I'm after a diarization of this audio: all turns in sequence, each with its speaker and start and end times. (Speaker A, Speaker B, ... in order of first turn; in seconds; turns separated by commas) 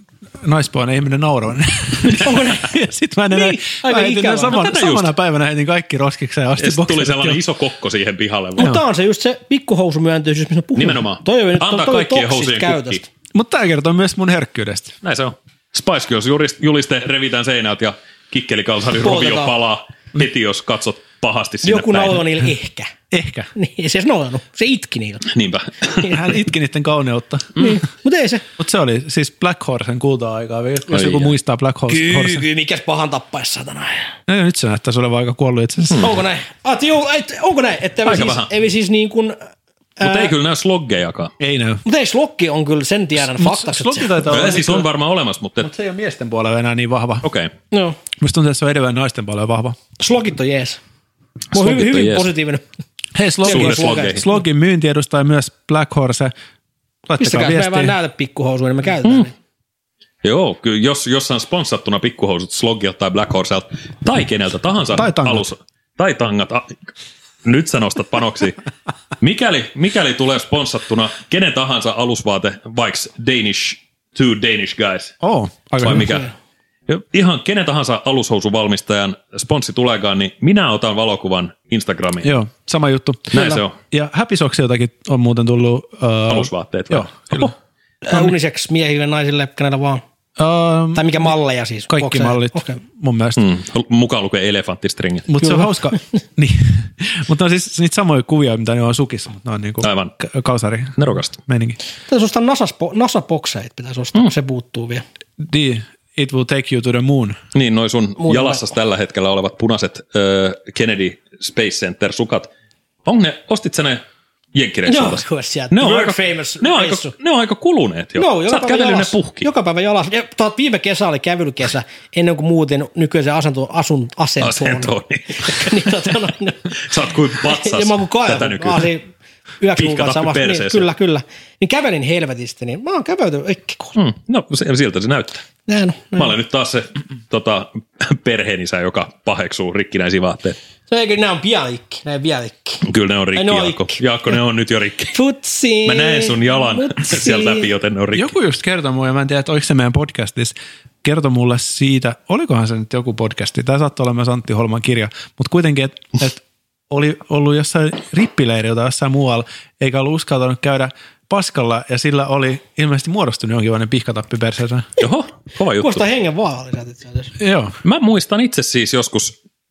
Speaker A: 0.4-7.4, Speaker B: 2.2-2.8, Speaker B: 3.3-4.6, Speaker C: 4.5-5.1, Speaker C: 6.6-8.7, Speaker B: 8.6-13.1, Speaker C: 10.7-13.0, Speaker A: 13.3-14.9, Speaker C: 15.0-22.2, Speaker B: 19.0-19.5, Speaker B: 21.6-22.9, Speaker A: 23.1-23.5, Speaker B: 23.5-25.2, Speaker C: 25.3-26.1, Speaker A: 26.0-27.7, Speaker B: 27.6-28.4, Speaker A: 28.6-32.5, Speaker C: 30.9-31.3, Speaker B: 31.9-34.1, Speaker A: 34.3-36.2, Speaker B: 35.9-39.4, Speaker C: 38.0-38.5, Speaker B: 40.0-40.3, Speaker C: 40.0-41.3, Speaker A: 41.4-41.8, Speaker B: 41.8-44.4, Speaker A: 43.2-44.9, Speaker C: 44.3-45.7, Speaker A: 45.6-47.2, Speaker C: 47.2-47.5, Speaker B: 47.7-48.0, Speaker A: 48.2-49.8, Speaker B: 50.0-50.8, Speaker C: 51.5-52.3, Speaker B: 51.5-52.6, Speaker A: 53.1-56.3, Speaker B: 53.4-54.4, Speaker C: 53.5-54.2, Speaker A: 57.0-57.9, Speaker B: 57.2-59.3, Speaker C: 60.2-66.8, Speaker A: 64.9-65.5, Speaker C: 67.4-68.6, Speaker C: 69.2-75.2, Speaker A: 75.2-76.2, Speaker C: 75.8-76.3, Speaker C: 76.9-82.4, Speaker A: 82.2-87.5, Speaker C: 83.3-83.8, Speaker C: 86.3-87.5, Speaker B: 88.0-90.0, Speaker A: 90.4-91.3, Speaker B: 90.9-92.8, Speaker A: 91.9-93.4, Speaker C: 93.3-95.3, Speaker A: 95.3-101.8, Speaker C: 99.8-100.1, Speaker C: 101.0-101.3, Speaker B: 102.1-105.0, Speaker A: 105.4-107.4, Speaker C: 107.5-112.5, Speaker B: 108.2-108.6, Speaker C: 113.0-114.0, Speaker C: 114.5-119.5, Speaker B: 114.9-117.1, Speaker B: 118.2-124.9, Speaker C: 124.4-125.9, Speaker B: 125.4-126.7, Speaker C: 126.7-128.9, Speaker B: 127.4-129.0, Speaker B: 129.6-133.9, Speaker C: 129.8-130.8, Speaker C: 133.9-135.4, Speaker B: 135.7-136.3, Speaker C: 136.2-140.6, Speaker B: 140.9-142.8, Speaker C: 142.8-145.2, Speaker B: 143.3-144.0, Speaker B: 145.1-147.7, Speaker C: 145.8-148.3, Speaker A: 148.1-164.9, Speaker C: 165.0-166.0, Speaker B: 165.8-167.3, Speaker A: 167.4-167.8, Speaker C: 167.8-169.3